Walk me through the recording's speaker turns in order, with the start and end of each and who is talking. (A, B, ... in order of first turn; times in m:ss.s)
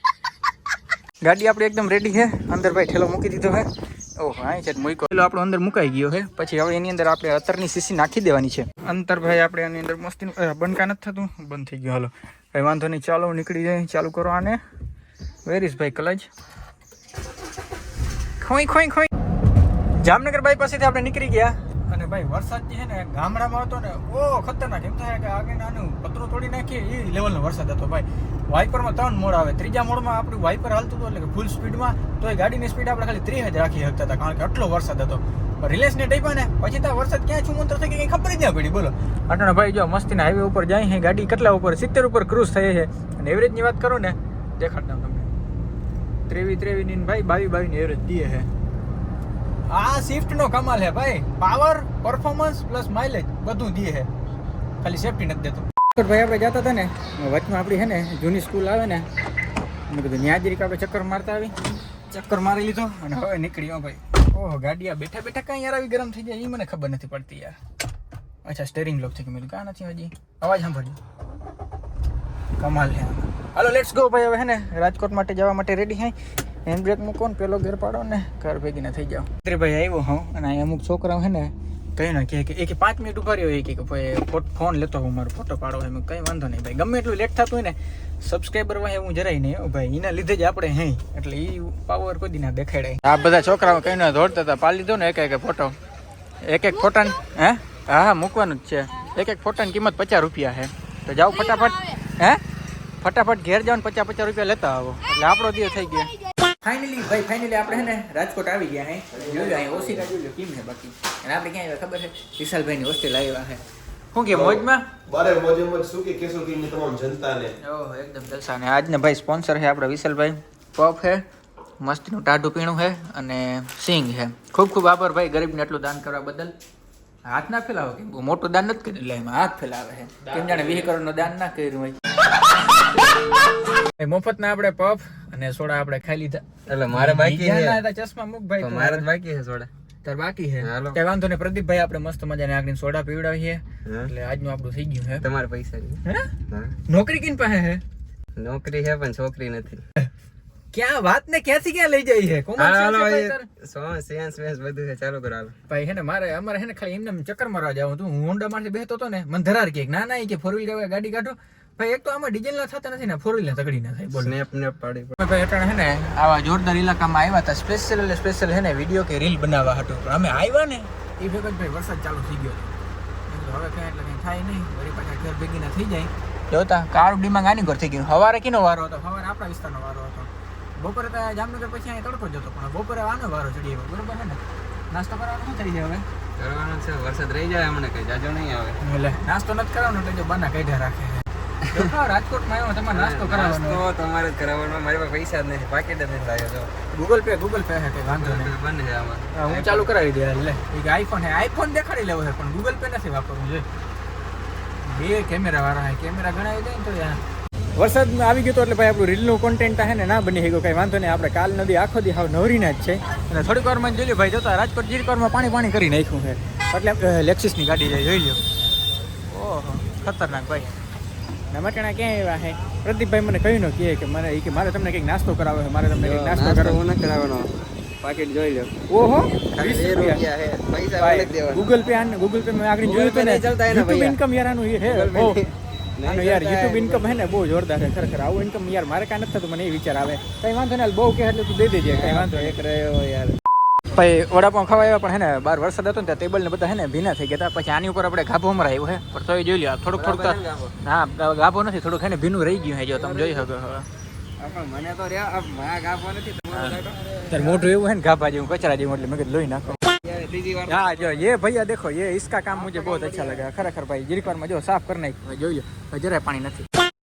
0:01.2-0:03.7 A
0:04.2-0:14.6 A
0:15.4-0:16.3 A
0:18.4-0:19.1 A
0:20.0-0:45.3 A
0:46.3-0:48.5 A
0:49.7-0:54.1 A
0:54.8-0:59.1 A
0:59.9-1:01.5 A
1:02.1-1:07.6 A
1:08.4-1:11.0 A
1:12.6-1:16.1 A
1:16.6-1:35.8 A
1:36.4-1:42.4 A
1:43.0-1:53.6 A
1:49.2-1:50.1 B
1:54.1-1:54.9 A
1:54.3-1:57.6 C
1:57.6-2:01.2 A
2:01.8-2:06.5 A
2:07.2-2:12.0 A
2:10.2-2:10.9 B
2:14.0-2:19.1 A
2:16.7-2:17.8 B
2:18.6-2:19.7 B
2:20.0-2:25.2 A
2:20.6-2:21.0 B
2:23.8-2:24.1 B
2:25.2-2:26.8 B
2:26.9-2:27.8 A
2:28.4-2:29.8 B
2:30.7-2:33.5 A
2:32.6-2:35.5 B
2:35.7-2:44.4 A
2:44.1-2:45.2 B
2:45.2-2:52.8 A
2:53.3-3:04.4 A
3:04.9-3:06.0 A
3:06.4-3:08.8 B
3:08.8-3:13.8 A
3:12.9-3:16.7 B
3:16.9-3:18.5 A
3:18.2-3:19.9 B
3:19.3-3:23.6 A
3:24.8-3:27.2 A
3:27.8-3:38.4 A
3:39.3-3:40.8 A
3:41.5-3:46.8 A
3:46.0-3:48.7 B
3:48.9-3:50.2 A
3:49.5-3:51.7 B
3:51.0-3:55.4 A
3:52.8-3:54.2 B
3:54.8-3:57.2 B
3:56.1-4:02.6 A
4:01.8-4:03.4 B
4:03.9-4:13.9 A
4:09.9-4:10.8 B
4:12.9-4:13.5 B
4:14.4-4:17.6 B
4:16.5-4:19.8 A
4:19.7-4:21.3 B
4:20.7-4:26.7 A
4:22.5-4:23.5 B